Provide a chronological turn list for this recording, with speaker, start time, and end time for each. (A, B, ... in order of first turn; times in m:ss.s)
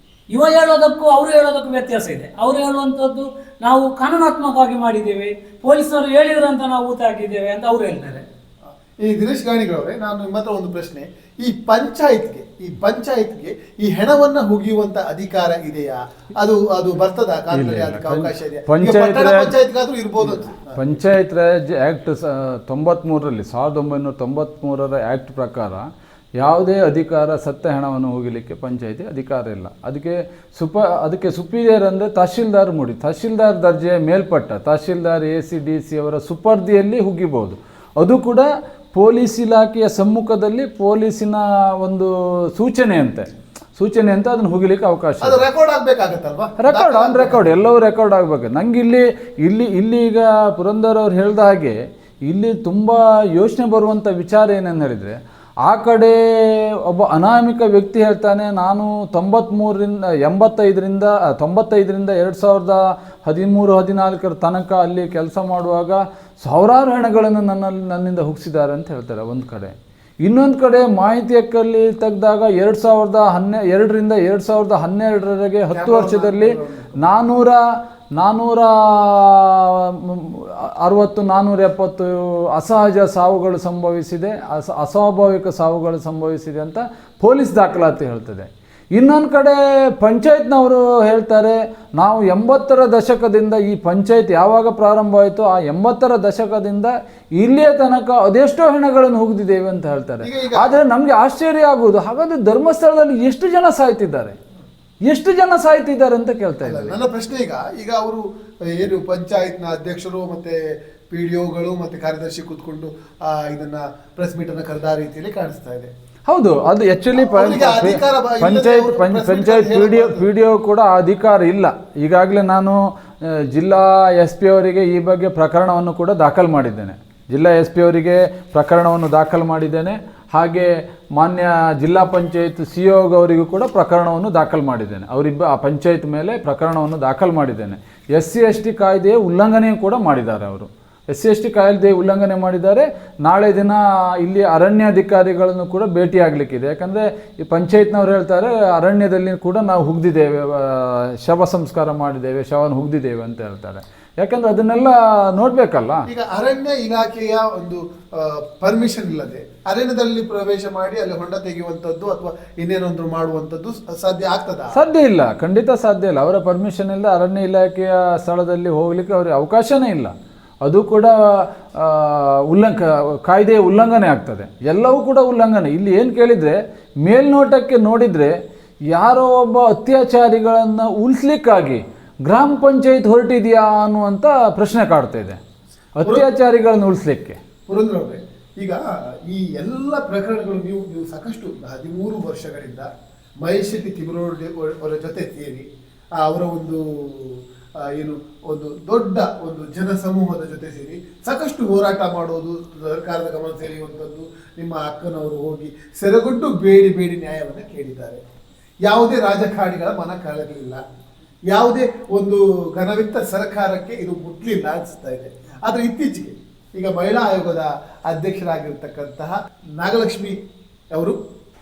0:00.3-0:08.2 A
0:09.0-0:21.0 B
0:17.5-0:19.6 C
0:20.2-0:25.8 C
0:26.4-0:45.4 C
0:45.2-0:47.5 B
0:46.6-1:09.7 C
1:10.2-1:17.6 C
1:15.7-1:17.1 B
1:18.2-1:44.4 C
1:40.2-1:40.8 B
1:45.1-1:47.0 C
1:46.6-1:50.6 B
1:51.1-1:55.9 B
1:56.3-2:02.8 C
1:57.2-2:00.2 B
2:03.5-2:36.0 C
2:36.1-2:44.8 B
2:44.7-2:50.1 C
2:50.6-2:58.3 C
2:58.9-3:05.4 C
3:06.0-3:07.4 C
3:07.7-3:12.9 B
3:13.4-3:15.6 B
3:16.2-3:17.4 B
3:17.9-3:28.2 B
3:28.9-3:30.8 B
3:31.5-3:40.4 B